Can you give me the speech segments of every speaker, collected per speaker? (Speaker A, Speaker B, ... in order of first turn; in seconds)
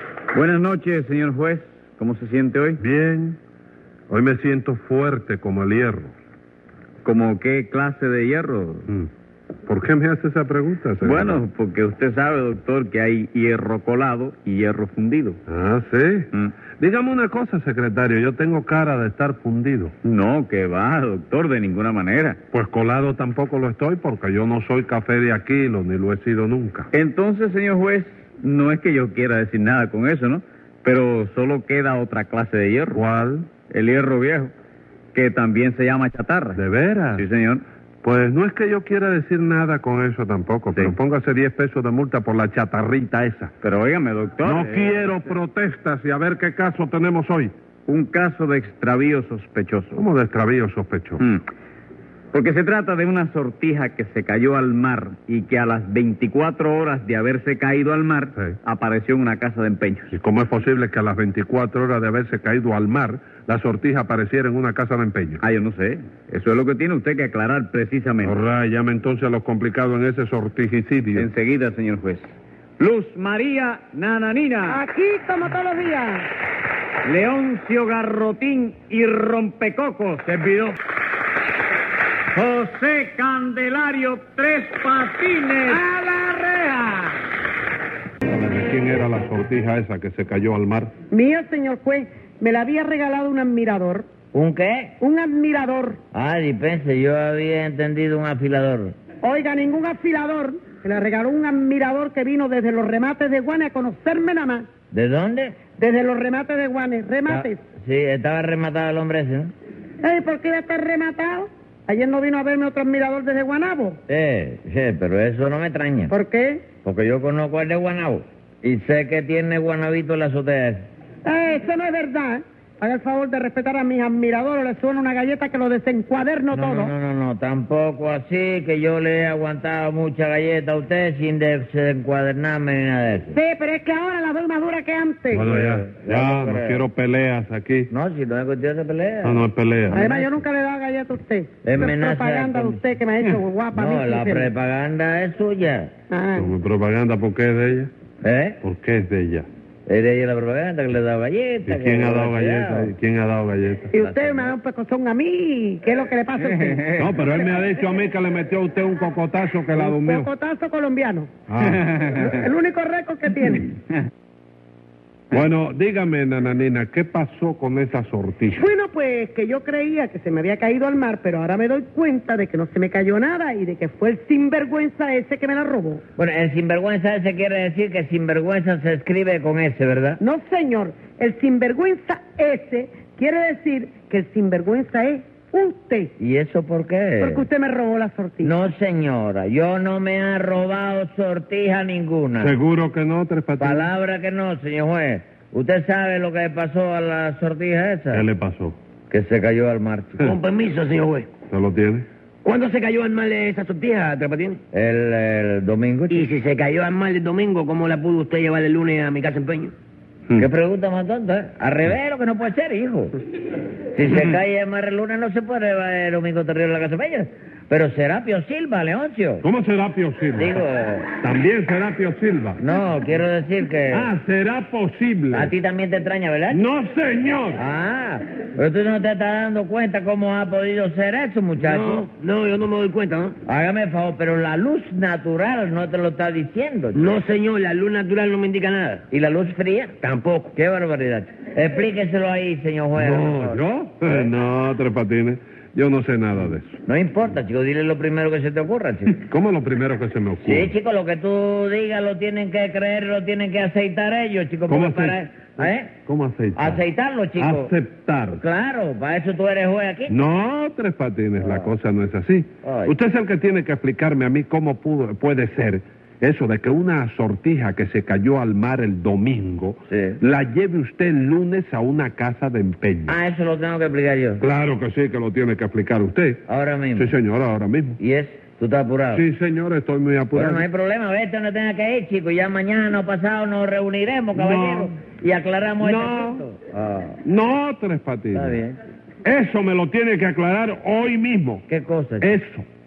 Speaker A: 0.3-2.8, 7.0-8.9, 11.0-15.4, 20.0-22.4, 26.9-33.0, 33.7-34.5, 35.1-36.6, 37.1-37.6, 43.6-45.2, 47.9-50.0, 52.3-60.1, 65.4-68.3, 71.2-72.2, 72.8-74.8, 77.0-80.8, 82.3-85.8, 156.5-157.1, 161.6-162.3
Speaker B: 2.8-3.4, 4.1-6.1, 9.7-11.4, 15.5-19.9, 22.5-26.9, 32.9-33.5, 36.5-37.3, 38.0-43.5, 44.4-47.5, 49.9-51.2, 60.1-65.4, 68.2-71.3, 88.2-90.9, 135.3-137.9, 139.2-140.0, 146.4-147.9, 148.6-149.5, 151.7-153.9, 157.0-160.3, 161.5-161.9, 165.3-168.6, 192.4-193.9, 198.1-198.8, 201.5-202.1, 219.4-220.6, 221.2-222.6, 223.9-225.5, 226.5-227.6, 243.0-246.8, 249.2-250.7, 254.7-256.8, 257.4-258.4, 260.1-273.2, 274.4-276.4, 277.0-278.0, 279.1-280.7, 284.4-284.9, 285.8-286.4, 287.2-288.6, 289.2-291.6, 292.2-292.6
Speaker C: 74.7-76.3, 85.7-87.1, 91.1-94.1, 95.0-96.0, 99.2-104.7, 105.8-107.6, 110.0-114.0, 116.1-116.7, 121.2-126.9, 133.3-135.5, 139.9-144.5, 146.1-146.5, 153.9-156.9, 159.7-161.3, 162.1-163.7, 168.5-176.0, 180.2-186.1, 187.2-188.5
Speaker D: 94.3-95.0, 96.1-99.0, 104.9-105.6, 107.3-109.5, 114.1-116.1, 116.8-120.9, 126.5-133.4, 135.5-136.8, 137.9-140.3, 141.6-142.8, 143.7-145.9, 148.2-148.6, 149.9-152.9, 154.0-154.5, 176.2-180.2, 186.2-187.5, 188.4-192.5, 193.6-198.3, 199.1-200.3, 204.7-206.3, 210.4-213.2, 213.9-219.4, 220.3-221.1, 222.6-224.1, 225.3-226.7, 227.6-232.1, 233.5-237.2, 239.1-239.9, 240.6-244.3, 246.8-249.2, 250.4-255.9, 256.6-257.7, 258.4-260.2, 261.4-261.7, 262.6-262.9, 269.9-270.2, 273.1-274.4, 276.5-277.1, 278.0-279.2, 280.3-287.2, 288.3-288.8, 291.7-292.3
Speaker E: 200.2-201.3, 202.4-204.6, 206.1-209.7, 231.6-233.4, 236.9-239.0, 240.0-240.5